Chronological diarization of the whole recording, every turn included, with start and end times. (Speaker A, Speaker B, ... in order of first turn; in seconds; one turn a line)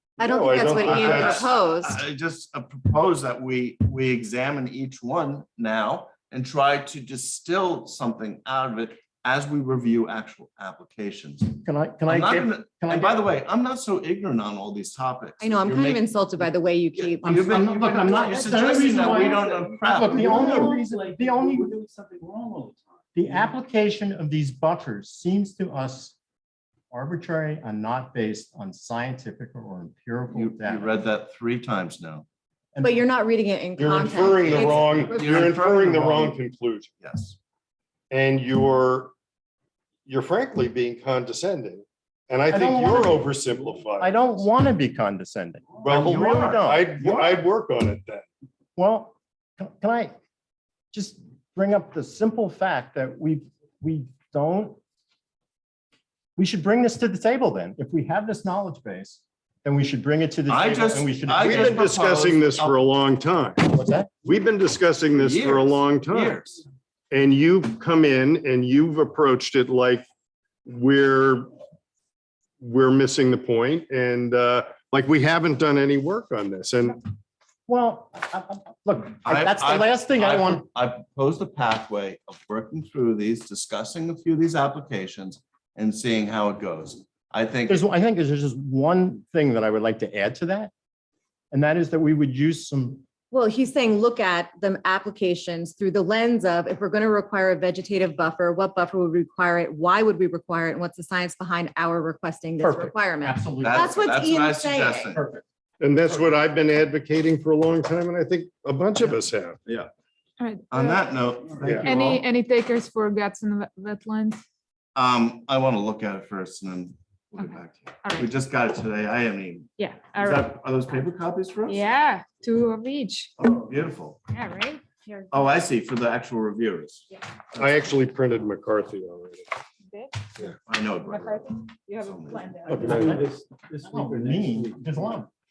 Speaker A: 0.2-1.5
Speaker B: 0.2-2.0
Speaker C: 0.8-20.6
Speaker D: 11.6-13.2
Speaker B: 15.4-18.4
Speaker D: 17.2-21.7
Speaker E: 18.9-23.4
Speaker D: 23.1-26.1
Speaker D: 26.9-30.9
Speaker C: 30.3-32.2
Speaker D: 32.7-33.0
Speaker B: 32.8-35.3
Speaker A: 33.8-36.9
Speaker C: 34.4-36.3
Speaker C: 37.0-37.4
Speaker A: 38.1-39.1
Speaker A: 40.0-44.1
Speaker D: 42.5-43.2
Speaker D: 44.0-47.4
Speaker A: 45.8-48.2
Speaker D: 48.8-50.1
Speaker D: 50.9-54.8
Speaker D: 56.4-61.9
Speaker C: 60.5-62.8
Speaker A: 61.4-63.7
Speaker D: 63.7-64.1
Speaker A: 64.2-66.4
Speaker C: 65.1-66.6
Speaker A: 67.1-70.0
Speaker A: 70.7-71.5
Speaker A: 72.6-77.0
Speaker D: 77.7-80.7
Speaker C: 79.2-87.9
Speaker D: 87.7-90.7
Speaker D: 91.5-93.0
Speaker B: 93.3-105.2
Speaker D: 102.6-104.0
Speaker C: 103.6-105.2
Speaker D: 105.1-105.4
Speaker A: 105.8-109.6
Speaker F: 110.4-111.0
Speaker C: 110.7-112.2
Speaker A: 111.6-111.9
Speaker F: 111.8-114.4
Speaker C: 114.9-121.9
Speaker F: 117.4-118.3
Speaker F: 119.8-120.5
Speaker F: 121.7-123.3
Speaker C: 123.4-124.2
Speaker F: 124.3-125.6
Speaker C: 125.3-127.1
Speaker A: 127.5-129.5
Speaker F: 129.9-130.3
Speaker C: 130.7-133.0
Speaker F: 131.0-132.9
Speaker A: 132.7-133.2
Speaker D: 132.8-135.3
Speaker E: 132.8-134.8